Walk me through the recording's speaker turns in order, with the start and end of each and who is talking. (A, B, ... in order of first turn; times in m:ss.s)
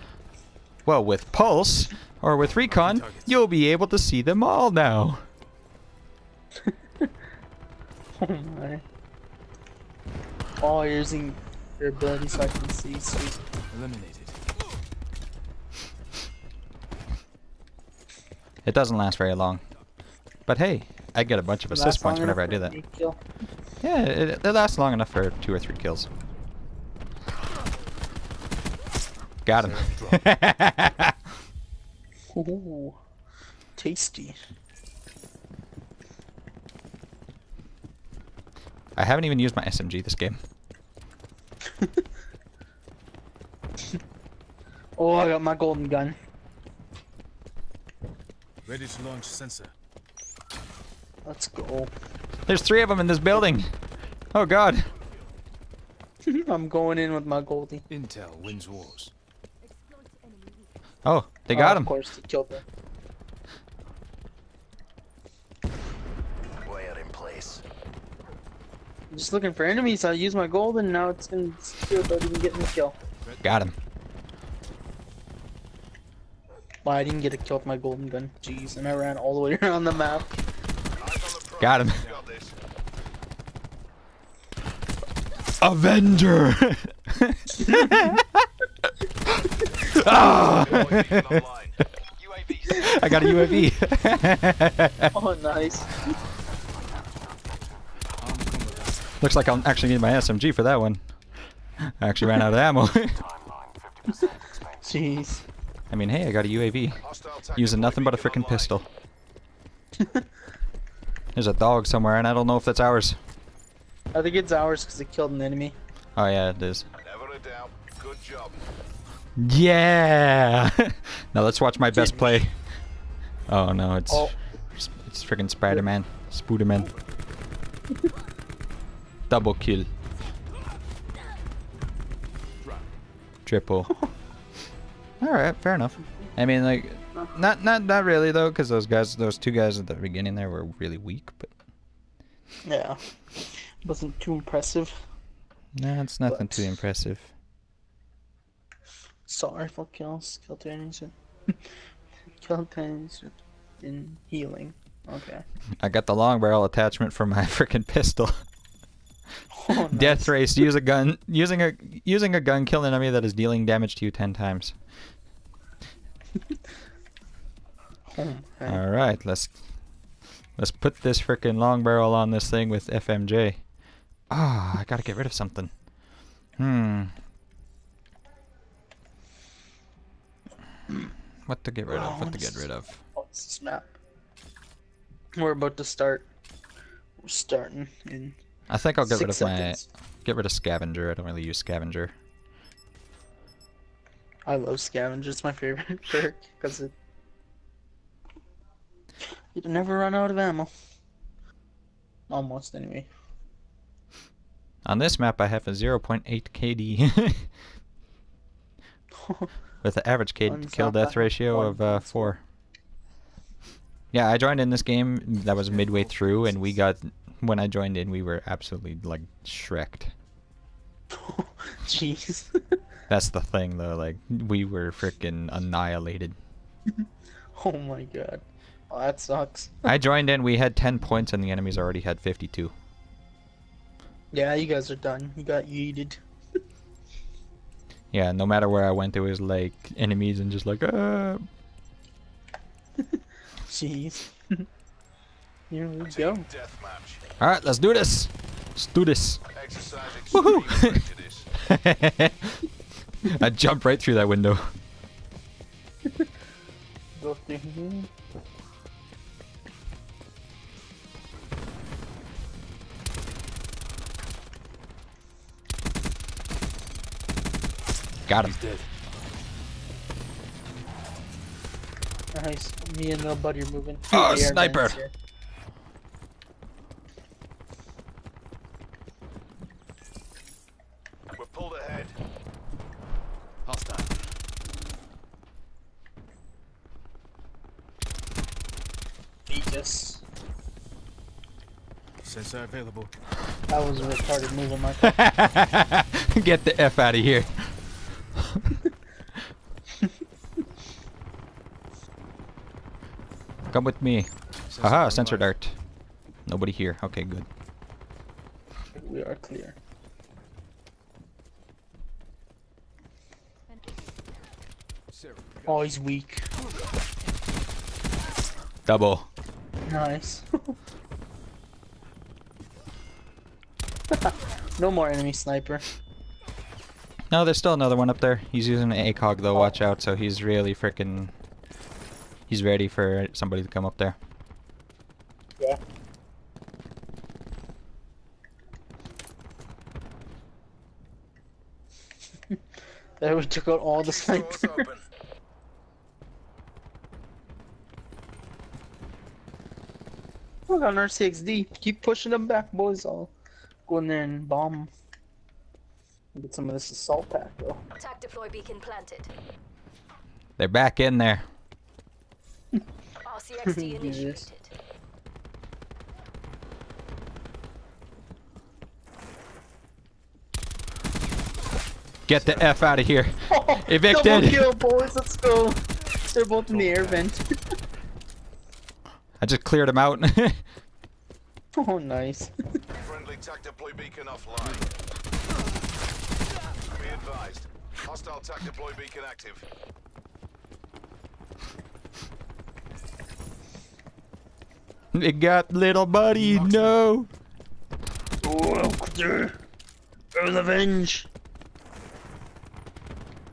0:00.8-0:05.2 A
0:02.7-0:03.3 B
0:06.7-0:07.1 C
0:08.2-0:08.8 C
0:10.6-0:13.4 C
0:13.7-0:14.4 B
0:18.6-0:19.6 A
0:20.5-0:22.8 A
0:21.7-0:23.2 C
0:23.8-0:26.1 A
0:29.4-0:31.2 A
0:29.6-0:30.2 B
0:32.3-0:33.0 C
0:33.8-0:34.4 C
0:39.0-0:40.4 A
0:45.0-0:46.2 C
0:48.6-0:49.7 B
0:51.2-0:51.9 C
0:52.5-0:53.7 A
0:54.3-0:54.8 A
0:56.2-0:57.8 C
0:57.9-0:59.1 B
1:01.0-1:01.9 A
1:01.5-1:02.6 C
1:06.6-1:07.6 D
1:09.1-1:13.0 C
1:13.2-1:13.6 B
1:13.4-1:13.8 A
1:16.8-1:20.3 C
1:21.0-1:22.6 D
1:21.6-1:22.0 A
1:25.6-1:28.4 A
1:27.6-1:28.0 C
1:29.9-1:31.4 A
1:29.9-1:31.8 D
1:32.4-1:32.6 E
1:32.6-1:35.1 A
1:32.9-1:33.6 C
1:35.1-1:36.1 C
1:38.2-1:39.1 B
1:39.2-1:41.0 A
1:41.8-1:43.2 A
1:44.1-1:45.4 C
1:45.9-1:47.0 A
1:47.0-1:48.8 D
1:47.6-1:48.9 A
1:50.0-1:50.2 C
1:51.4-1:53.2 A
1:54.1-1:55.8 C
1:56.2-1:56.9 A
1:57.0-1:58.6 D
1:59.4-2:02.5 A
2:01.9-2:02.4 C
2:03.5-2:06.9 A
2:04.1-2:04.3 C
2:06.7-2:07.1 B
2:09.3-2:09.9 A
2:12.6-2:12.9 B
2:13.4-2:13.9 A
2:15.2-2:21.5 A
2:22.6-2:25.0 C
2:25.8-2:27.3 A
2:26.3-2:26.6 C
2:29.3-2:31.1 C
2:32.4-2:35.4 C
2:35.8-2:38.4 A
2:39.5-2:40.4 C
2:39.9-2:44.8 A
2:48.1-2:48.8 C
2:48.7-2:49.6 A
2:50.6-2:53.6 A
2:54.3-2:55.7 A
2:56.6-2:57.1 A
3:01.5-3:03.0 A
3:01.9-3:03.9 C
3:05.3-3:06.3 C
3:07.2-3:08.4 C
3:08.7-3:12.1 A
3:09.0-3:09.8 C
3:14.4-3:16.9 C
3:19.6-3:20.7 C
3:22.3-3:23.1 C
3:24.8-3:27.5 A
3:29.2-3:29.5 C
3:29.8-3:32.4 A
3:30.4-3:32.3 C
3:34.1-3:40.1 A
3:35.5-3:36.8 B
3:41.1-3:42.8 C
3:43.1-3:46.4 A
3:47.6-3:49.9 C
3:49.8-3:52.7 A
3:54.3-3:56.2 C
3:58.1-4:01.4 A
4:03.7-4:04.7 C
4:05.7-4:06.4 C
4:06.1-4:07.2 D
4:07.4-4:09.4 A
4:09.5-4:11.5 D
4:10.3-4:11.0 A
4:11.6-4:12.7 A
4:13.2-4:14.7 A
4:17.2-4:18.1 C
4:28.3-4:28.6 A
4:28.4-4:28.9 B
4:32.3-4:35.1 C
4:34.1-4:35.0 A
4:41.4-4:42.1 D
4:43.6-4:44.1 B
4:49.5-4:50.2 C
4:52.2-4:53.1 B
4:53.7-4:55.2 C
4:55.0-4:57.7 A
4:58.3-4:58.8 A
5:03.7-5:05.8 A
5:04.7-5:05.5 B
5:06.4-5:07.5 A
5:08.9-5:09.8 C
5:15.1-5:15.9 B
5:15.7-5:16.4 C
5:18.8-5:19.3 A
5:19.8-5:20.7 C
5:24.1-5:25.8 C
5:27.3-5:31.3 A
5:32.5-5:34.2 A
5:43.2-5:44.8 C
5:44.0-5:45.0 D
5:50.7-5:53.3 C
5:53.9-5:54.9 C
5:56.3-5:57.8 C
5:58.0-5:59.3 E
6:00.6-6:01.4 A
6:03.2-6:04.7 E
6:03.7-6:04.4 C
6:12.3-6:14.7 A
6:12.3-6:12.7 B
6:13.5-6:17.5 C
6:16.7-6:17.3 B
6:19.4-6:20.6 A
6:21.8-6:22.5 C
6:23.0-6:24.8 D
6:26.9-6:29.6 D
6:35.1-6:37.3 A
6:36.3-6:37.0 B
6:38.4-6:39.6 C
6:40.3-6:41.3 C